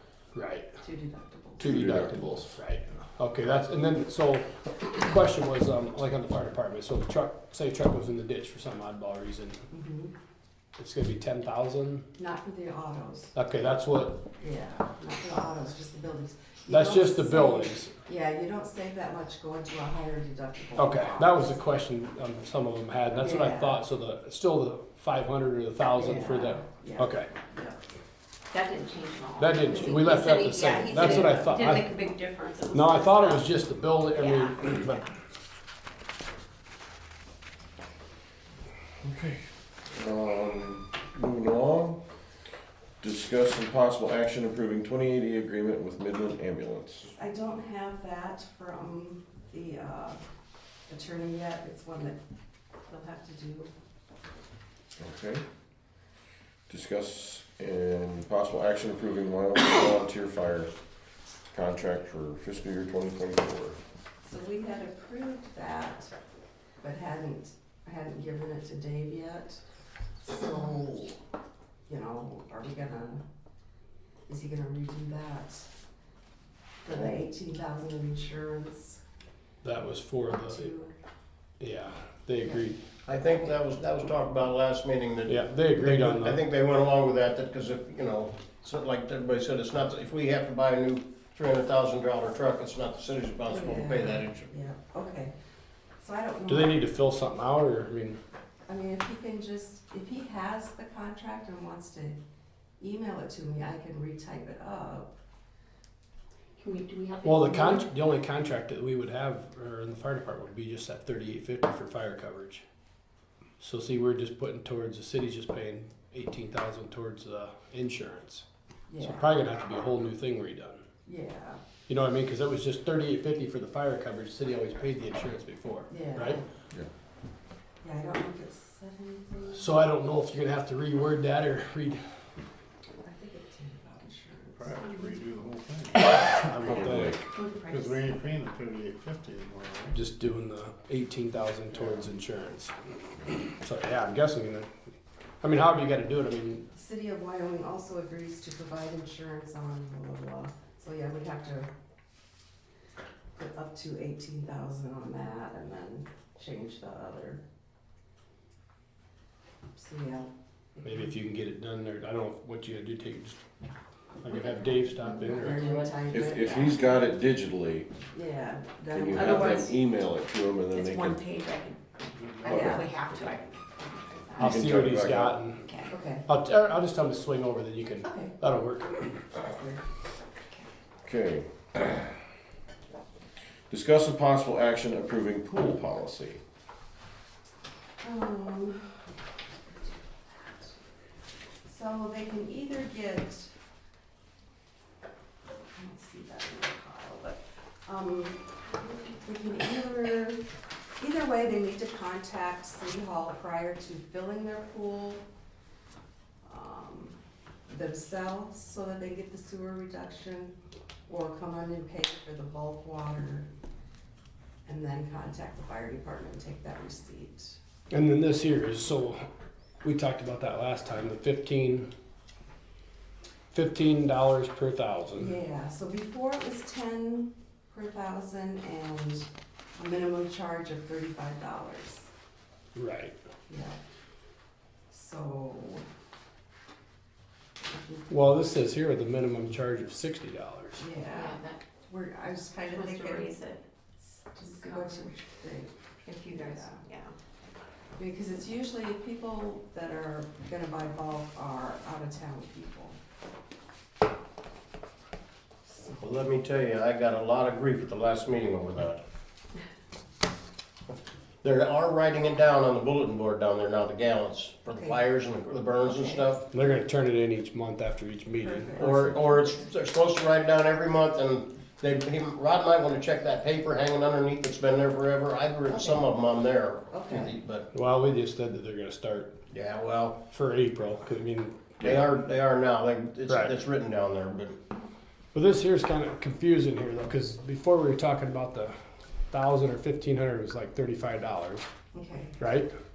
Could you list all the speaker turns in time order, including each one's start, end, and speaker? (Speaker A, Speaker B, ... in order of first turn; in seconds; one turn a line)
Speaker A: 0.3-0.7
Speaker B: 0.8-1.6
Speaker A: 1.6-9.6
Speaker C: 1.6-2.3
Speaker B: 9.7-10.1
Speaker A: 10.8-12.1
Speaker B: 12.2-13.3
Speaker A: 13.3-14.2
Speaker B: 14.3-21.5
Speaker A: 16.7-17.9
Speaker A: 20.8-27.3
Speaker B: 23.2-23.8
Speaker B: 25.9-27.8
Speaker D: 28.5-33.5
Speaker A: 29.4-32.0
Speaker A: 32.7-35.0
Speaker D: 34.1-35.0
Speaker C: 39.0-42.0
Speaker C: 43.0-47.1
Speaker B: 47.1-50.2
Speaker B: 50.9-52.2
Speaker B: 52.9-53.7
Speaker C: 55.0-55.4
Speaker C: 56.7-60.7
Speaker C: 61.5-63.8
Speaker B: 64.2-66.1
Speaker B: 66.8-69.6
Speaker B: 70.2-71.2
Speaker B: 71.9-73.2
Speaker B: 74.3-75.7
Speaker B: 76.8-79.0
Speaker A: 79.6-80.7
Speaker B: 80.3-80.9
Speaker A: 81.6-82.8
Speaker E: 83.0-94.5
Speaker A: 85.3-86.4
Speaker B: 93.5-95.3
Speaker B: 96.0-96.8
Speaker A: 96.5-98.2
Speaker B: 98.7-102.2
Speaker B: 102.8-105.1
Speaker D: 106.6-107.8
Speaker A: 107.2-112.6
Speaker A: 113.6-118.4
Speaker B: 118.9-119.3
Speaker A: 119.0-120.8
Speaker B: 121.0-121.6
Speaker A: 121.9-126.4
Speaker B: 125.9-126.4
Speaker B: 127.8-129.8
Speaker A: 129.5-132.0
Speaker B: 133.0-135.1
Speaker F: 134.6-136.7
Speaker A: 136.3-137.2
Speaker C: 136.6-137.2
Speaker D: 137.3-138.0
Speaker F: 137.7-140.0
Speaker A: 139.9-144.7
Speaker F: 141.7-142.1
Speaker A: 145.4-146.7
Speaker B: 146.7-151.7
Speaker B: 153.4-157.4
Speaker B: 159.7-161.1
Speaker A: 160.8-163.4
Speaker A: 164.2-165.7
Speaker B: 164.3-166.8
Speaker C: 166.1-167.9
Speaker B: 168.1-169.7
Speaker C: 168.9-171.2
Speaker D: 169.1-169.8
Speaker D: 170.7-174.6
Speaker F: 172.2-172.6
Speaker B: 172.4-172.9
Speaker C: 172.5-172.8
Speaker A: 174.3-175.7
Speaker C: 174.4-175.4
Speaker D: 175.6-175.9
Speaker B: 175.9-176.3
Speaker A: 176.3-179.3
Speaker B: 178.0-178.4
Speaker B: 179.4-179.8
Speaker C: 181.0-182.1
Speaker C: 183.7-186.4
Speaker B: 188.0-189.1
Speaker B: 189.7-190.8
Speaker B: 191.6-193.5
Speaker B: 195.7-200.4
Speaker B: 201.0-205.2
Speaker B: 206.4-207.2
Speaker B: 207.7-210.5
Speaker B: 211.1-213.5
Speaker B: 214.7-217.6
Speaker A: 217.9-219.2
Speaker A: 219.8-221.9
Speaker A: 223.5-225.4
Speaker B: 225.1-232.1
Speaker A: 232.7-233.1
Speaker B: 233.5-233.8
Speaker B: 234.9-235.8
Speaker B: 237.7-238.1
Speaker A: 238.1-240.8
Speaker B: 240.8-243.4
Speaker D: 241.0-241.6
Speaker D: 242.7-243.6
Speaker B: 244.0-245.7
Speaker D: 244.4-245.1
Speaker D: 246.0-247.1
Speaker B: 246.2-246.8
Speaker B: 248.0-253.0
Speaker B: 255.7-256.0
Speaker E: 256.0-259.0
Speaker E: 261.4-266.4
Speaker B: 264.7-265.0
Speaker B: 265.9-266.2
Speaker A: 266.5-269.1
Speaker B: 268.4-268.9
Speaker E: 268.8-277.7
Speaker B: 275.7-276.1
Speaker B: 276.9-277.3
Speaker A: 277.7-279.4
Speaker E: 279.5-280.2
Speaker A: 280.3-281.9
Speaker E: 281.8-284.6
Speaker A: 285.3-288.7
Speaker A: 289.3-291.6
Speaker B: 291.9-292.4
Speaker A: 292.4-292.7